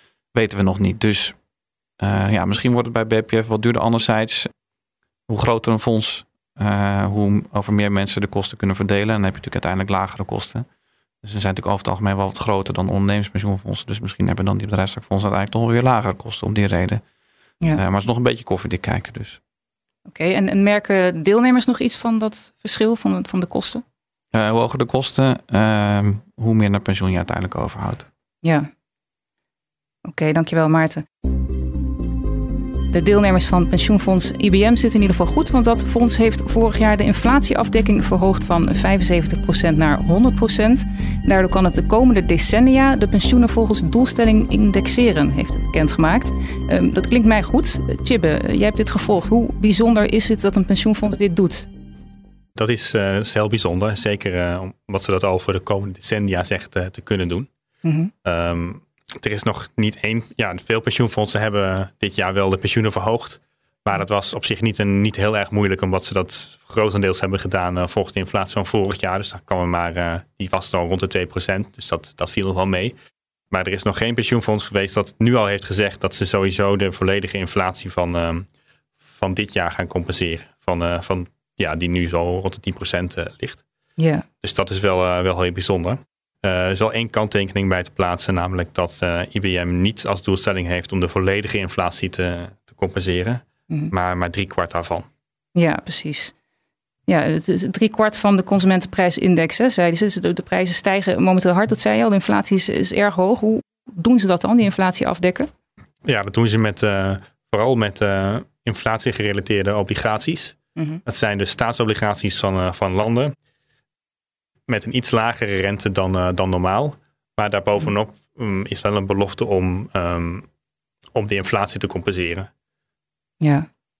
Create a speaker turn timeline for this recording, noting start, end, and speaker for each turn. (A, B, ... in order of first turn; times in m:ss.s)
0:00.3-0:01.4 A
0:02.0-0:04.5 A
0:05.3-0:10.6 A
0:11.2-0:17.0 A
0:17.8-0:19.4 A
0:20.1-0:23.8 B
0:24.3-0:28.1 A
0:28.4-0:28.7 B
0:30.0-0:31.0 B
0:32.9-0:51.7 B
0:52.6-0:57.5 C
0:57.8-0:58.1 B
0:58.2-1:12.9 C
1:13.5-1:18.5 C
1:19.2-1:23.6 C
1:24.0-1:24.2 B
1:24.4-1:35.1 C
1:35.5-1:36.3 B
1:37.1-1:45.5 B
1:46.0-1:53.3 C
1:54.7-2:00.4 C
2:01.1-2:02.5 C
2:03.4-2:03.7 B